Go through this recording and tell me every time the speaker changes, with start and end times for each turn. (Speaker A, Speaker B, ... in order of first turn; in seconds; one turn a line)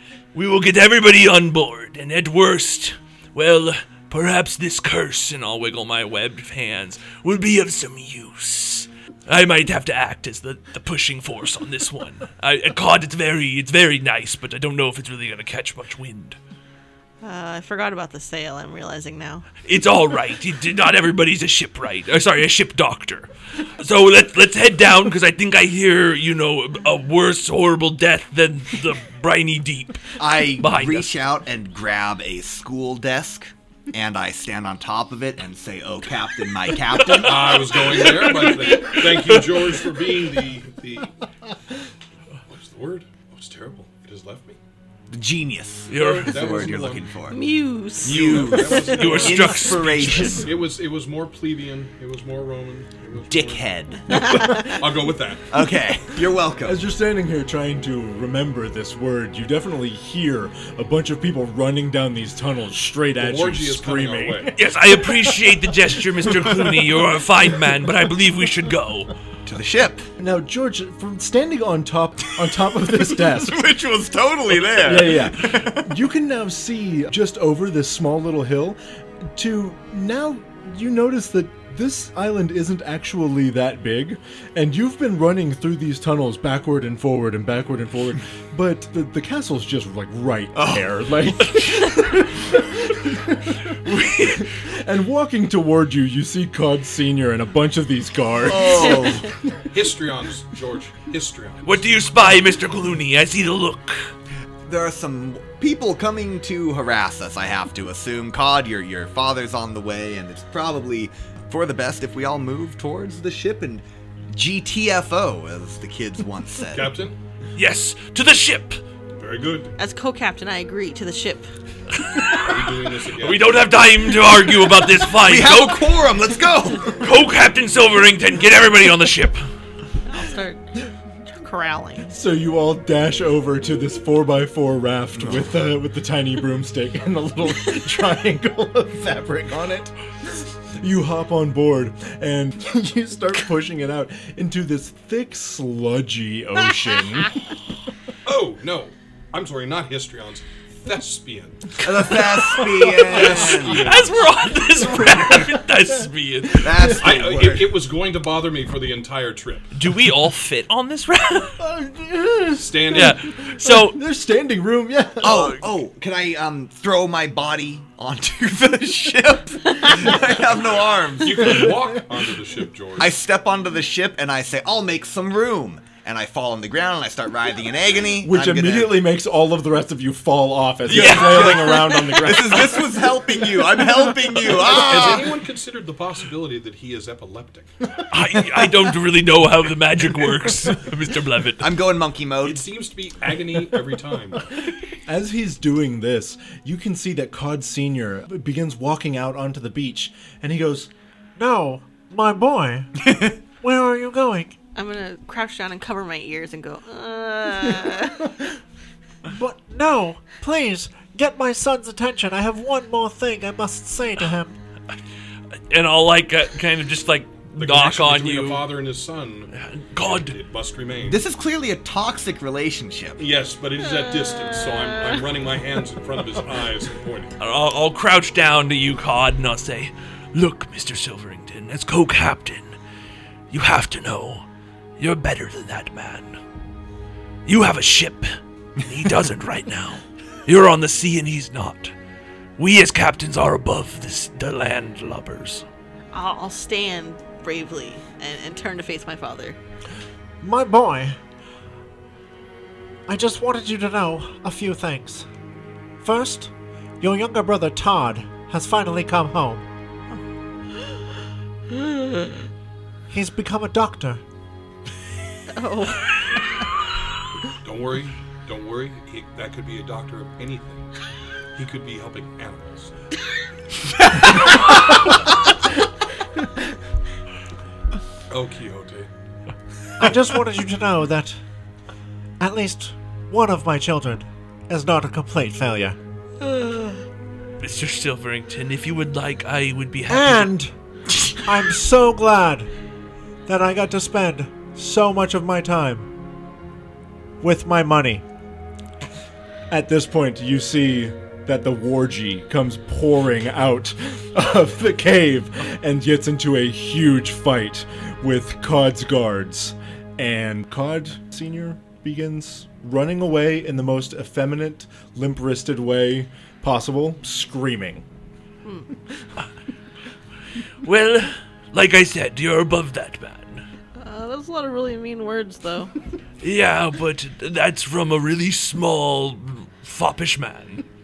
Speaker A: 0.3-16.4
Speaker B: 17.2-19.5
Speaker A: 19.6-31.1
Speaker C: 30.2-38.1
Speaker A: 37.1-40.0
Speaker D: 37.1-41.1
Speaker D: 42.5-44.6
Speaker C: 45.1-47.4
Speaker A: 45.9-46.7
Speaker D: 46.0-47.1
Speaker B: 47.3-48.7
Speaker C: 48.0-50.5
Speaker D: 48.0-55.6
Speaker A: 48.7-50.5
Speaker C: 53.3-54.7
Speaker B: 54.1-54.7
Speaker C: 55.5-56.8
Speaker E: 56.6-64.5
Speaker D: 63.2-64.5
Speaker A: 64.5-69.1
Speaker C: 69.4-70.1
Speaker E: 70.2-73.6
Speaker C: 73.0-75.9
Speaker E: 74.8-99.3
Speaker C: 90.5-92.0
Speaker C: 98.4-99.3
Speaker D: 99.7-101.8
Speaker A: 101.6-104.1
Speaker C: 104.6-117.0
Speaker D: 116.6-117.2
Speaker A: 117.5-118.8
Speaker D: 119.2-119.7
Speaker B: 119.8-121.5
Speaker A: 122.0-126.0
Speaker D: 122.3-123.7
Speaker C: 125.1-127.1
Speaker A: 127.0-129.4
Speaker B: 130.1-132.1
Speaker E: 132.1-147.4
Speaker D: 148.2-151.8
Speaker C: 151.8-153.9
Speaker D: 152.6-154.3
Speaker A: 153.4-157.0
Speaker E: 155.0-155.6
Speaker C: 156.6-157.8
Speaker E: 156.6-157.0
Speaker D: 156.9-159.7
Speaker A: 159.7-161.6
Speaker E: 161.6-165.6
Speaker D: 162.6-163.2
Speaker A: 162.9-164.0
Speaker C: 165.2-171.8
Speaker A: 165.3-165.6
Speaker D: 171.2-173.2
Speaker C: 173.0-179.0
Speaker E: 178.2-182.9
Speaker A: 180.9-182.3
Speaker C: 180.9-185.4
Speaker D: 184.5-187.7
Speaker A: 188.1-191.8
Speaker C: 191.6-192.7
Speaker D: 192.4-194.6
Speaker E: 195.0-200.9
Speaker F: 201.3-204.6
Speaker B: 204.7-208.3
Speaker F: 209.2-214.6
Speaker A: 215.7-218.7
Speaker D: 217.6-221.2
Speaker A: 219.5-220.4
Speaker C: 221.0-223.2
Speaker D: 223.2-227.4
Speaker A: 227.4-232.7
Speaker A: 233.5-234.4
Speaker A: 235.0-236.4
Speaker A: 237.4-241.9
Speaker A: 242.6-245.6
Speaker B: 246.1-249.6
Speaker F: 250.4-251.2
Speaker F: 253.1-255.3
Speaker F: 256.0-259.6
Speaker F: 263.1-264.2
Speaker B: 265.5-266.1
Speaker D: 267.6-270.9
Speaker D: 271.5-272.9
Speaker D: 278.3-279.1
Speaker F: 280.0-281.4
Speaker F: 282.4-286.0
Speaker A: 287.6-290.6
Speaker F: 290.1-290.7
Speaker F: 291.4-292.7
Speaker F: 293.4-296.1
Speaker F: 297.4-298.2
Speaker E: 299.7-318.0
Speaker B: 318.6-318.9
Speaker A: 320.8-323.6
Speaker B: 324.0-325.9
Speaker A: 326.4-330.8